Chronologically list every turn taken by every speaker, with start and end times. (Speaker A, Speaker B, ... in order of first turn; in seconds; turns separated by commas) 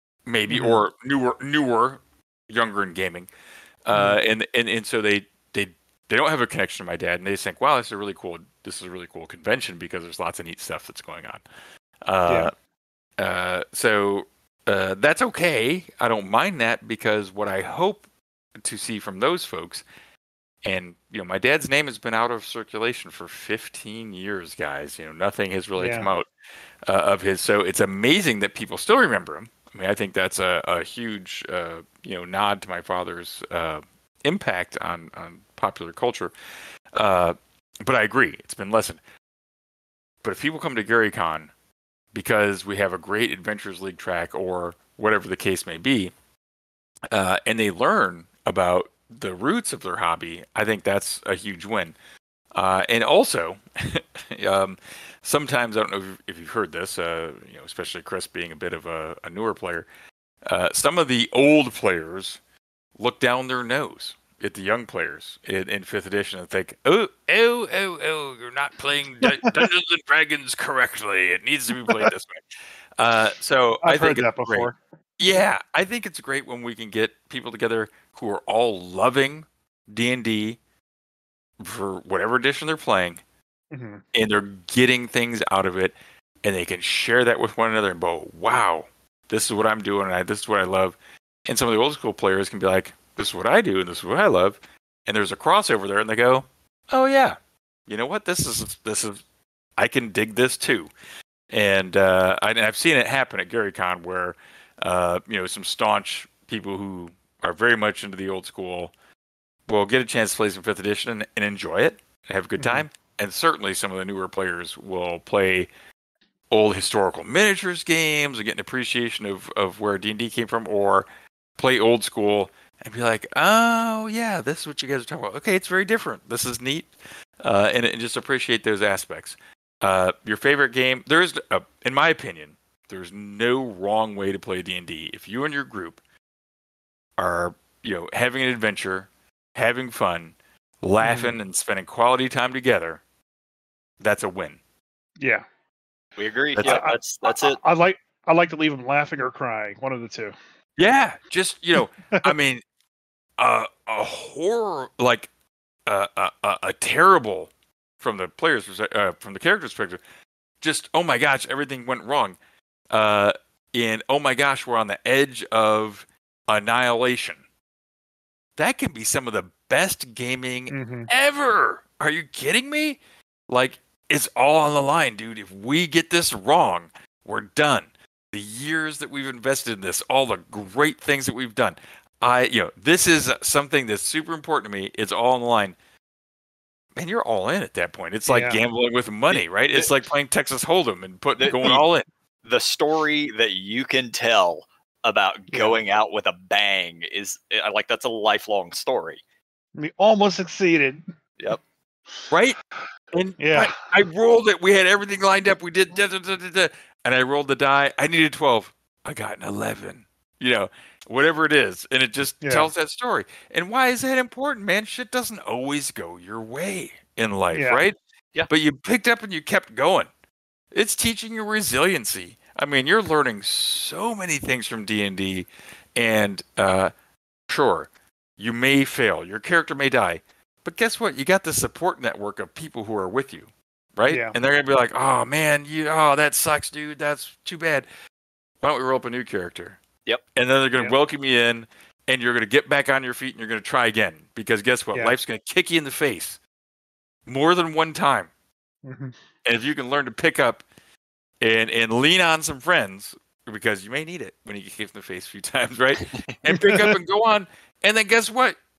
Speaker A: 0.3-3.3, Speaker B: 0.5-0.8, Speaker A: 3.9-11.4, Speaker B: 3.9-4.2, Speaker A: 12.1-12.5, Speaker A: 13.2-18.0, Speaker A: 18.6-19.8, Speaker A: 20.6-26.3, Speaker B: 25.8-26.1, Speaker A: 26.9-36.3, Speaker A: 36.9-39.0, Speaker A: 40.2-41.5, Speaker A: 42.1-46.1, Speaker A: 47.1-52.0, Speaker A: 52.5-59.9, Speaker A: 60.5-62.4, Speaker A: 63.0-72.5, Speaker B: 69.2-69.6, Speaker A: 73.0-74.7, Speaker B: 73.8-74.8, Speaker A: 75.2-80.6, Speaker A: 81.6-83.2, Speaker B: 83.7-84.0, Speaker A: 84.1-97.4, Speaker A: 97.9-99.2, Speaker A: 99.8-100.9, Speaker A: 101.5-108.9, Speaker A: 109.7-115.7, Speaker B: 112.6-112.8, Speaker A: 116.5-121.1, Speaker A: 121.6-136.0, Speaker A: 137.2-143.0, Speaker B: 141.0-141.3, Speaker A: 144.0-144.6, Speaker C: 146.2-147.6, Speaker A: 146.6-146.8, Speaker B: 146.6-150.3, Speaker A: 150.8-152.6, Speaker A: 153.4-155.3, Speaker A: 155.9-160.0, Speaker A: 160.6-162.4, Speaker A: 162.9-167.4, Speaker A: 168.6-185.8, Speaker B: 170.7-171.1, Speaker A: 186.9-192.1, Speaker B: 188.3-188.6, Speaker C: 189.3-189.9, Speaker C: 191.4-191.8, Speaker C: 192.4-199.2, Speaker B: 195.5-195.8, Speaker B: 199.8-201.0, Speaker A: 202.3-202.6, Speaker A: 203.1-217.9, Speaker B: 203.4-203.8, Speaker B: 212.4-212.7, Speaker B: 217.5-217.8, Speaker A: 218.5-220.1, Speaker A: 220.7-226.9, Speaker A: 227.5-237.9, Speaker B: 234.1-234.4, Speaker A: 238.6-239.8, Speaker A: 240.3-246.4, Speaker A: 247.3-248.3, Speaker B: 248.8-249.2, Speaker A: 249.4-250.6, Speaker A: 251.4-258.6, Speaker B: 256.6-256.9